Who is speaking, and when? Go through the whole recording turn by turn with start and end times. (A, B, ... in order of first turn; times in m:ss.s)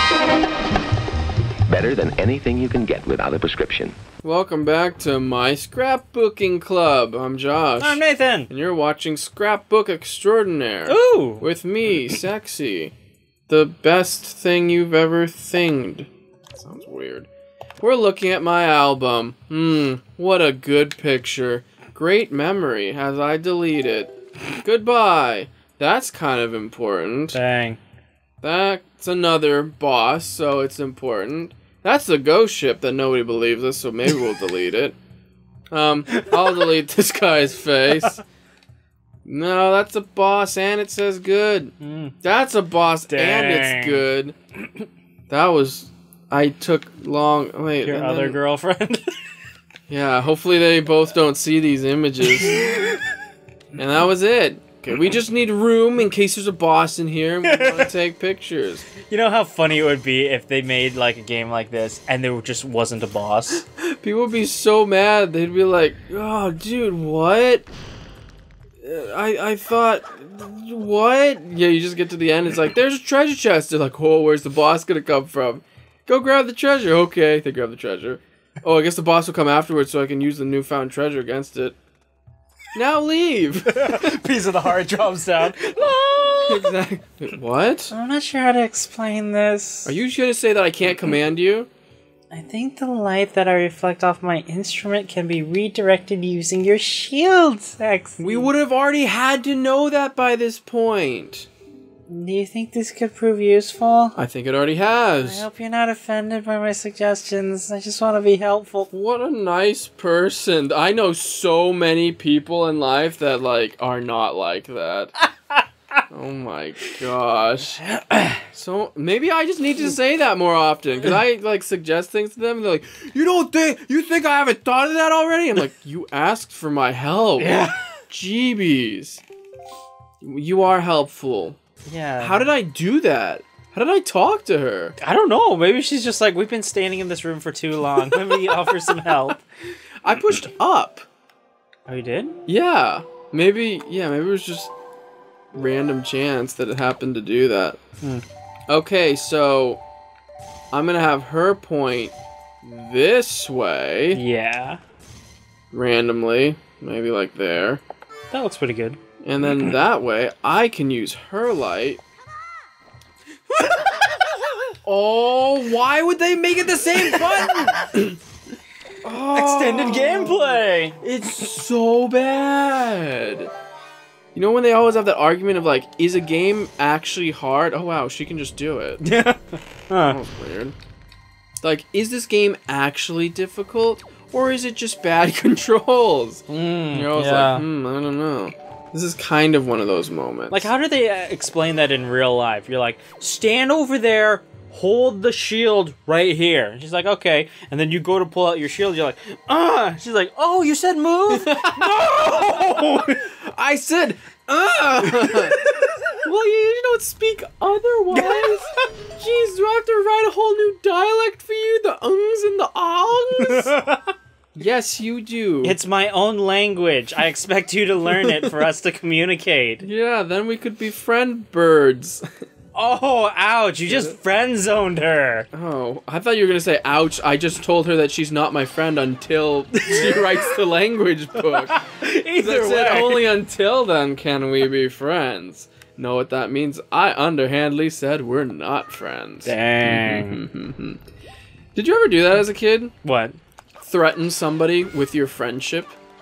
0:01.7-0:04.0 A
0:04.2-0:12.9 B
0:07.8-0:08.5 C
0:10.9-0:11.4 C
0:13.5-0:17.3 B
0:17.8-0:27.4 B
0:27.3-0:27.8 C
0:28.4-0:35.0 B
0:35.7-0:38.2 B
0:36.2-0:36.5 C
0:39.2-0:44.3 B
0:41.8-0:42.1 C
0:43.1-0:44.0 C
0:45.3-0:48.4 B
0:47.8-0:49.1 C
0:49.9-0:52.6 B
0:52.3-0:53.0 C
0:53.8-0:58.9 B
0:57.4-0:57.9 C
0:59.1-1:03.6 C
1:03.5-1:07.7 B
1:08.8-1:21.8 B
1:22.7-1:24.2 B
1:23.7-1:26.7 C
1:26.5-1:27.9 B
1:27.9-1:29.9 C
1:29.8-1:31.7 B
1:32.3-1:38.5 C
1:38.2-1:41.5 B
1:42.1-1:44.2 C
1:44.2-1:45.4 B
1:45.2-1:48.9 C
1:48.9-1:55.1 B
1:56.1-1:57.8 B
1:57.8-1:58.4 C
1:58.5-2:09.2 B
2:07.4-2:07.8 C
2:10.2-2:11.6 B
2:11.8-2:12.5 C
2:12.2-2:15.0 B
2:15.0-2:19.4 C
2:18.0-2:19.3 B
2:20.0-2:21.1 B
2:21.9-2:22.4 C
2:22.4-2:24.7 B
2:25.5-2:27.8 B
2:28.7-2:29.8 B
2:30.7-2:34.2 B
2:34.1-2:34.8 C
2:35.7-2:37.8 B
2:38.3-2:39.0 C
2:39.2-2:42.0 B
2:43.7-2:44.0 C
2:44.8-2:48.2 B
2:46.9-2:47.8 C
2:49.0-2:53.5 B
2:49.3-2:51.0 C
2:54.3-2:59.0 B
2:59.0-3:00.2 C
3:00.0-3:00.7 B
3:01.6-3:10.7 B
3:06.5-3:07.6 C
3:10.5-3:23.2 C
3:21.3-3:25.6 B
3:25.1-3:25.9 C
3:26.2-3:33.7 B
3:28.1-3:28.6 C
3:33.4-3:34.1 C
3:34.5-3:35.8 B
3:35.6-3:39.8 C
3:38.1-3:38.6 B
3:39.8-3:42.2 B
3:42.7-3:45.5 C
3:43.9-3:44.2 B
3:45.5-3:51.8 B
3:49.8-3:50.5 C
3:51.7-3:53.2 C
3:52.4-4:01.0 B
3:59.4-4:00.4 C
4:01.7-4:02.9 B
4:03.0-4:03.4 C
4:03.8-4:05.9 B